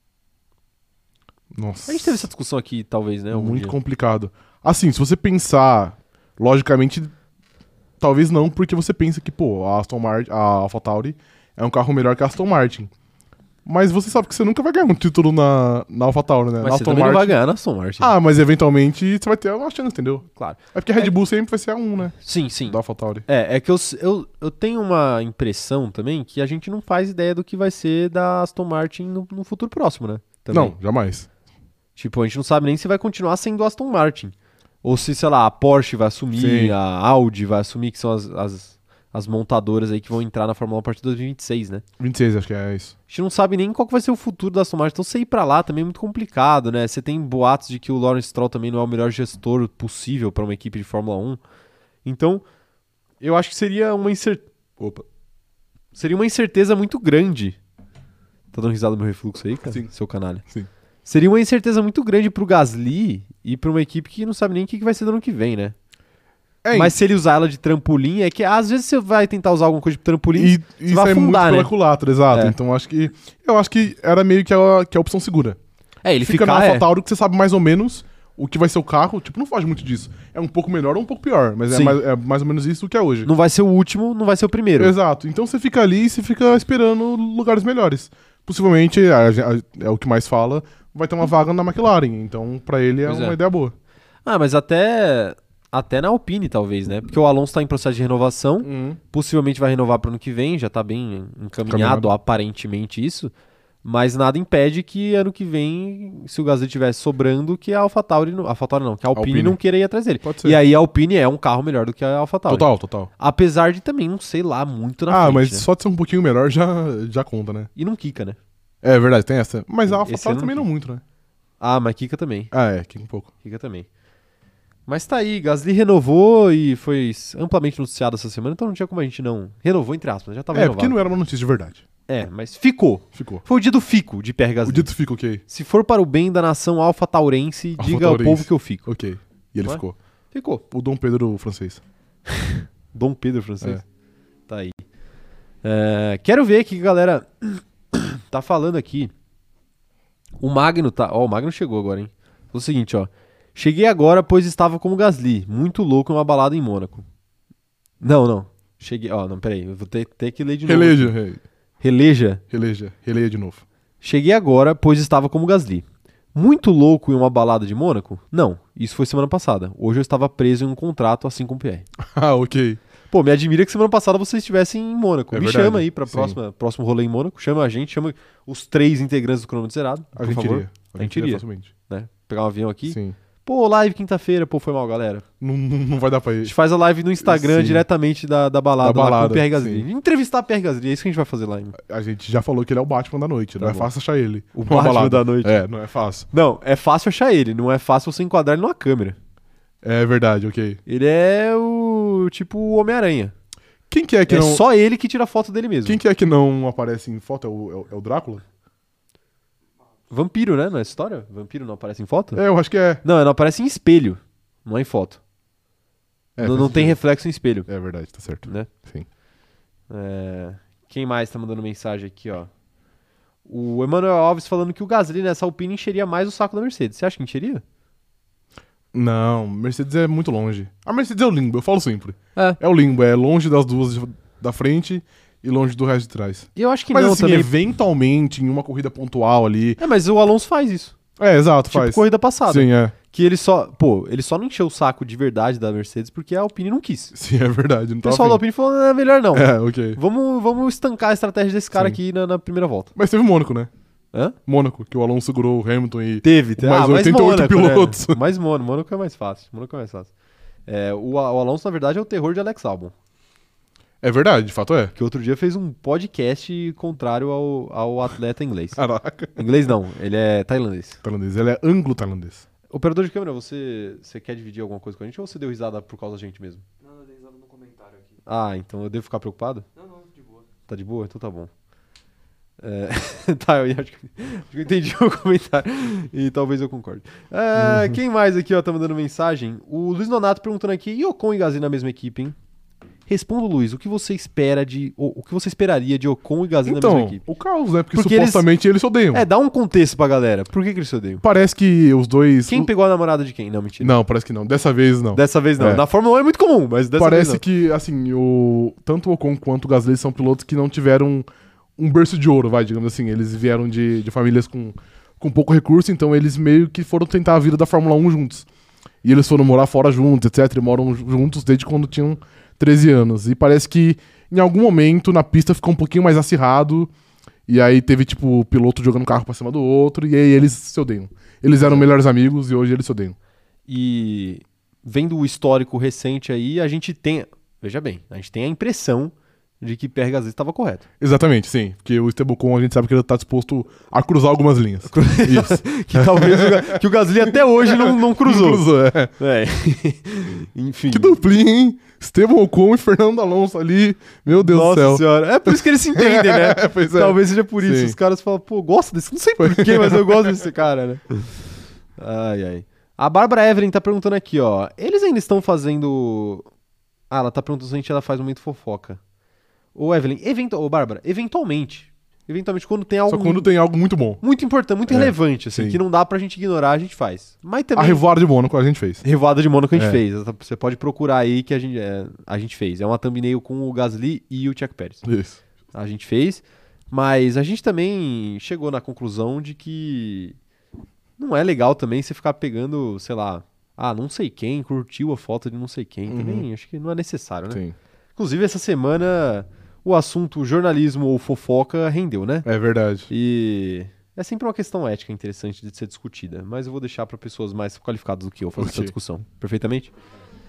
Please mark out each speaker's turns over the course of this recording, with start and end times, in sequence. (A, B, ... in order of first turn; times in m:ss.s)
0:01.5-0:02.2 A
0:01.9-0:03.7 B
0:03.3-0:07.1 A
0:08.0-0:12.9 A
0:13.6-0:17.4 A
0:16.6-0:18.1 B
0:18.0-0:22.2 A
0:20.3-0:21.1 B
0:22.2-0:30.8 B
0:22.7-0:23.2 A
0:30.5-0:31.3 A
0:32.0-0:41.8 B
0:36.3-0:36.8 A
0:42.0-0:42.9 A
0:43.1-0:51.4 B
0:52.0-0:52.4 B
0:53.2-0:54.4 B
0:55.9-0:57.6 B
0:58.5-1:00.4 B
1:01.0-1:05.7 B
1:06.6-1:06.9 A
1:06.7-1:11.7 B
1:10.3-1:15.6 A
1:16.0-1:16.9 B
1:16.2-1:23.3 A
1:21.7-1:22.0 B
1:23.2-1:24.9 B
1:24.8-1:33.7 A
1:33.0-1:33.4 B
1:34.2-1:43.3 B
1:38.6-1:39.0 A
1:41.7-1:42.1 A
1:43.8-1:52.7 B
1:49.1-1:49.6 A
1:50.2-1:50.6 A
1:52.5-1:53.1 A
1:53.2-1:55.6 B
1:55.1-1:57.7 A
1:57.8-1:58.4 B
1:58.8-2:01.0 A
1:59.9-2:00.7 B
2:01.6-2:02.5 B
2:02.5-2:03.3 A
2:03.4-2:03.9 B
2:04.9-2:11.0 B
2:10.5-2:11.8 A
2:12.1-2:14.9 B
2:13.1-2:13.4 A
2:14.6-2:15.4 A
2:15.5-2:18.9 B
2:17.8-2:20.0 A
2:19.6-2:20.6 B
2:20.7-2:21.8 A
2:22.3-2:23.8 B
2:24.5-2:24.8 B
2:25.6-2:29.1 B
2:30.4-2:37.0 B
2:38.0-2:41.1 B
2:40.6-2:41.4 A
2:41.8-2:42.4 B
2:42.5-2:43.6 A
2:44.0-2:51.8 B
2:52.0-2:52.8 A
2:53.1-3:05.2 B
2:55.3-2:56.4 A
3:00.2-3:01.7 A
3:02.9-3:03.2 A
3:05.4-3:06.5 A
3:06.4-3:11.8 B
3:07.2-3:07.8 A
3:08.8-3:09.8 A
3:11.8-3:16.3 A
3:13.6-3:13.9 B
3:14.5-3:15.6 B
3:16.3-3:19.2 B
3:19.8-3:20.8 A
3:20.8-3:23.3 B
3:23.9-3:24.6 A
3:24.3-3:26.0 B
3:25.8-3:28.4 A
3:30.1-3:32.4 B
3:32.3-3:33.0 A
3:33.0-3:35.2 B
3:36.4-3:37.0 A
3:36.4-3:37.7 B
3:37.7-3:39.0 A
3:38.4-3:38.7 B
3:39.9-3:42.5 B
3:43.4-3:47.6 B
3:48.9-3:59.8 A
3:56.6-3:57.5 B
3:59.8-4:00.9 B
4:01.2-4:02.9 A
4:01.7-4:07.1 B
4:07.1-4:08.4 A
4:08.0-4:12.9 B
4:09.3-4:10.0 A
4:13.0-4:13.7 A
4:14.5-4:18.2 A
4:16.2-4:20.1 B
4:20.7-4:22.9 B
4:24.0-4:24.9 A
4:24.9-4:28.8 B
4:28.8-4:29.5 A
4:29.3-4:31.0 B
4:31.0-4:32.4 A
4:32.7-4:36.6 B
4:36.8-4:38.2 C
4:38.3-4:39.6 B
4:39.8-4:40.4 C
4:40.7-4:41.5 B
4:42.6-4:52.4 B
4:53.1-4:57.2 B
4:56.6-4:59.2 A
4:57.9-4:58.4 B
4:59.1-5:01.2 B
5:01.2-5:02.7 A
5:02.5-5:03.9 B
5:03.8-5:05.8 A
5:05.1-5:07.4 B
5:07.0-5:11.2 A
5:11.8-5:18.5 A
5:19.0-5:26.9 A
5:27.5-5:33.1 A
5:33.7-5:40.8 B
5:41.0-5:49.1 A
5:44.9-5:48.6 B
5:49.2-5:51.2 B
5:50.9-5:58.0 A
5:54.3-6:01.4 B
5:59.4-6:00.4 A
6:02.0-6:06.4 B
6:07.1-6:09.0 B
6:09.7-6:13.5 B
6:13.1-6:14.2 A
6:14.2-6:18.0 B
6:14.9-6:15.8 A
6:17.8-6:19.0 A
6:19.0-6:25.0 B
6:19.7-6:20.0 A
6:25.0-6:25.4 A
6:25.7-6:30.4 B
6:31.2-6:37.6 B
6:36.1-6:36.4 A
6:38.2-6:42.4 B
6:42.4-6:43.1 A
6:43.1-6:49.9 B
6:48.6-6:48.9 A